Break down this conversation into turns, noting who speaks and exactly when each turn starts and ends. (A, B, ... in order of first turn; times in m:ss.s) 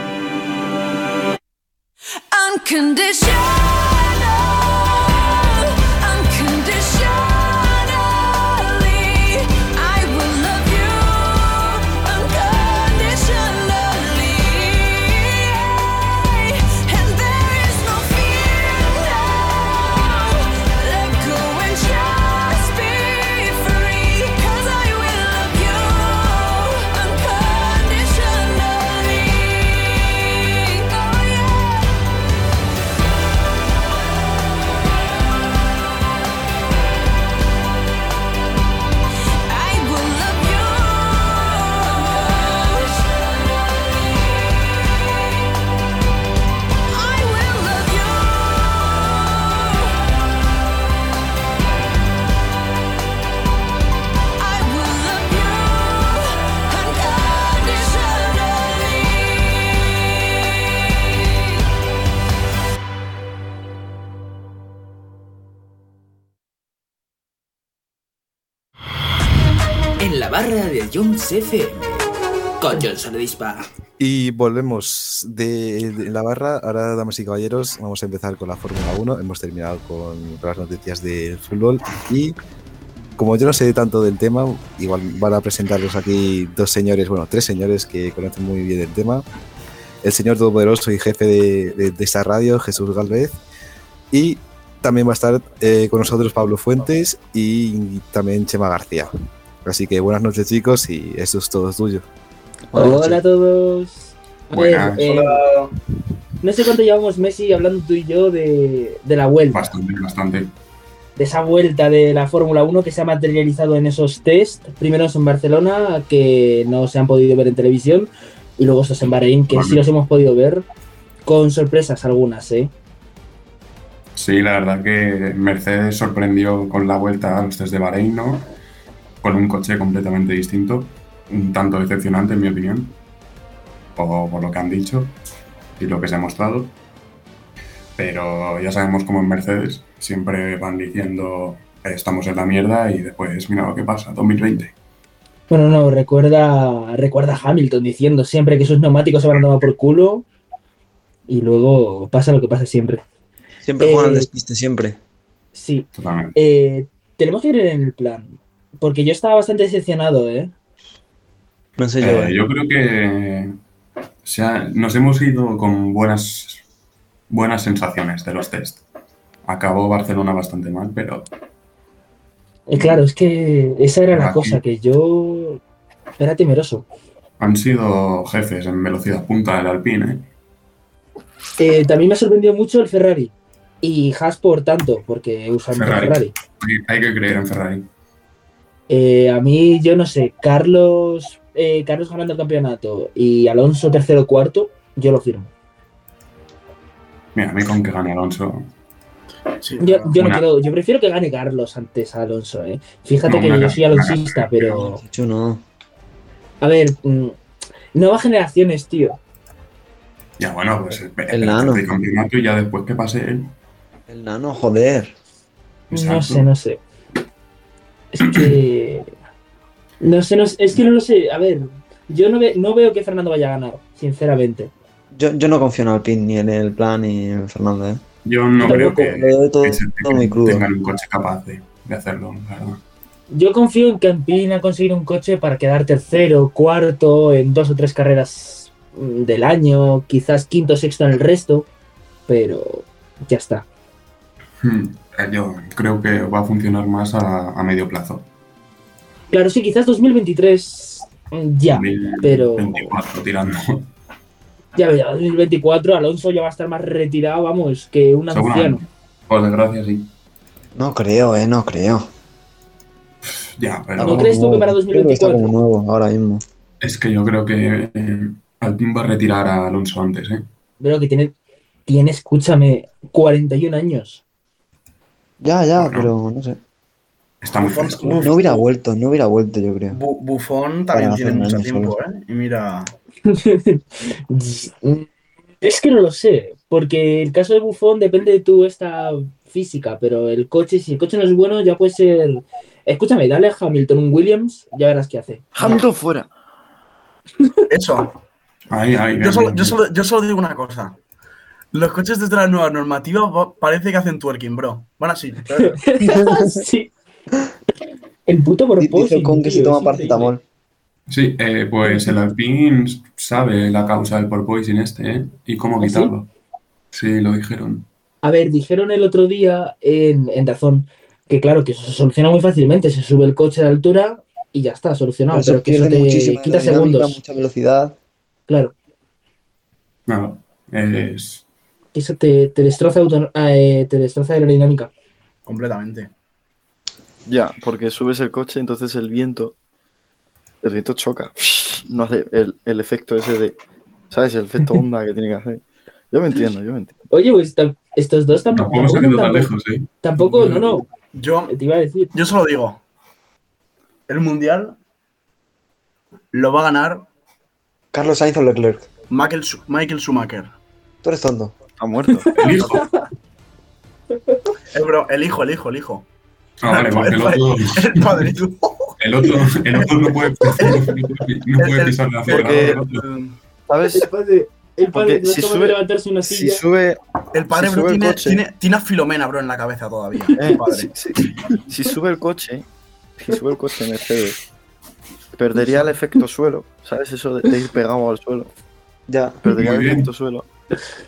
0:02.3-0:32.0 A
0:39.4-0:45.1 A
0:46.8-0:49.9 A
0:54.4-1:00.2 A
1:10.0-1:12.0 B
1:12.6-1:13.7 B
1:14.0-1:22.4 C
1:23.2-1:29.2 C
1:30.0-1:33.4 C
1:34.1-1:39.1 C
1:39.6-1:42.0 C
1:42.7-1:43.2 D
1:42.7-1:45.4 E
1:44.5-1:45.1 F
1:45.0-1:45.7 G
1:46.4-1:49.7 E
1:49.5-1:50.5 F
1:51.2-2:00.6 E
1:59.5-1:59.8 F
2:01.2-2:02.7 E
2:04.2-2:08.5 F
2:09.2-2:13.0 F
2:14.0-2:15.1 F
2:15.8-2:16.7 F
2:18.0-2:24.7 F
2:25.5-2:30.2 E
2:31.3-2:33.0 E
2:33.6-2:35.0 D
2:33.8-2:34.3 E
2:35.5-2:40.5 E
2:35.9-2:36.4 F
2:41.8-2:42.4 D
2:42.0-2:43.6 F
2:44.2-2:46.6 F
2:47.3-2:48.8 F
2:49.4-2:51.3 F
2:52.7-2:55.6 E
2:52.7-2:53.0 F
2:54.1-2:54.6 F
2:56.2-2:56.8 E
2:57.4-3:00.3 F
3:01.6-3:06.3 E
3:05.7-3:07.9 F
3:08.9-3:15.5 E
3:17.3-3:18.7 F
3:19.6-3:20.2 G
3:19.8-3:25.0 E
3:20.1-3:20.4 F
3:23.2-3:24.9 F
3:24.8-3:25.6 D
3:26.6-3:27.4 E
3:27.9-3:29.2 E
3:30.4-3:33.5 F
3:31.3-3:31.9 D
3:34.1-3:35.1 D
3:35.9-3:36.5 F
3:35.9-3:36.8 E
3:38.1-3:39.1 E
3:38.2-3:38.5 F
3:40.0-3:44.7 E
3:45.1-3:48.0 D
3:48.2-3:52.8 F
3:48.6-3:49.1 E
3:48.6-3:50.7 D
3:53.3-4:01.7 E
4:02.3-4:03.6 E
4:04.6-4:08.2 F
4:09.3-4:12.9 E
4:11.7-4:13.9 F
4:14.7-4:18.8 E
4:18.3-4:20.1 F
4:20.8-4:22.1 D
4:23.3-4:24.4 F
4:24.0-4:26.4 D
4:24.0-4:25.5 E
4:26.8-4:30.4 F
4:30.8-4:31.3 E
4:31.9-4:34.2 E
4:35.4-4:36.6 D
4:35.8-4:36.1 F
4:37.4-4:38.3 F
4:37.6-4:38.6 G
4:38.2-4:40.0 D
4:39.9-4:42.9 G
4:40.9-4:41.9 D
4:43.3-4:45.1 E
4:45.6-4:55.8 E
4:55.5-4:56.3 H
4:57.7-4:58.1 G
4:58.7-4:59.8 F
4:59.2-5:01.0 G
5:01.7-5:05.8 G
5:05.6-5:06.9 E
5:06.1-5:06.6 D
5:08.2-5:10.3 E
5:08.8-5:10.4 D
5:11.1-5:16.3 F
5:11.8-5:12.2 E
5:15.8-5:16.1 E
5:16.9-5:17.9 F
5:18.2-5:27.2 E
5:25.3-5:28.0 D
5:28.5-5:28.7 E
5:30.1-5:31.4 F
5:31.9-5:34.9 E
5:35.4-5:36.1 G
5:37.2-5:39.5 H
5:40.6-5:43.6 H
5:44.1-5:46.9 H
5:47.1-5:50.9 E
5:48.5-5:50.8 F
5:51.1-5:51.5 G
5:51.5-5:52.1 E
5:52.1-5:52.8 G
5:54.1-5:54.8 G
5:56.3-5:57.1 G
5:57.9-5:58.9 D
5:59.1-6:00.5 G
6:01.0-6:01.5 D
6:01.8-6:02.7 H
6:02.1-6:03.0 E
6:02.3-6:02.9 F
6:04.7-6:06.0 G
6:06.6-6:08.3 F
6:06.7-6:08.9 G
6:09.0-6:13.0 F
6:10.6-6:10.9 G
6:11.6-6:13.4 G
6:12.3-6:12.8 H
6:13.7-6:14.1 H
6:13.9-6:16.6 E
6:14.9-6:18.4 H
6:17.3-6:20.9 G
6:20.3-6:22.6 H
6:23.2-6:24.4 H
6:25.4-6:28.5 H
6:29.1-6:29.4 D
6:29.4-6:30.4 H
6:29.5-6:30.1 F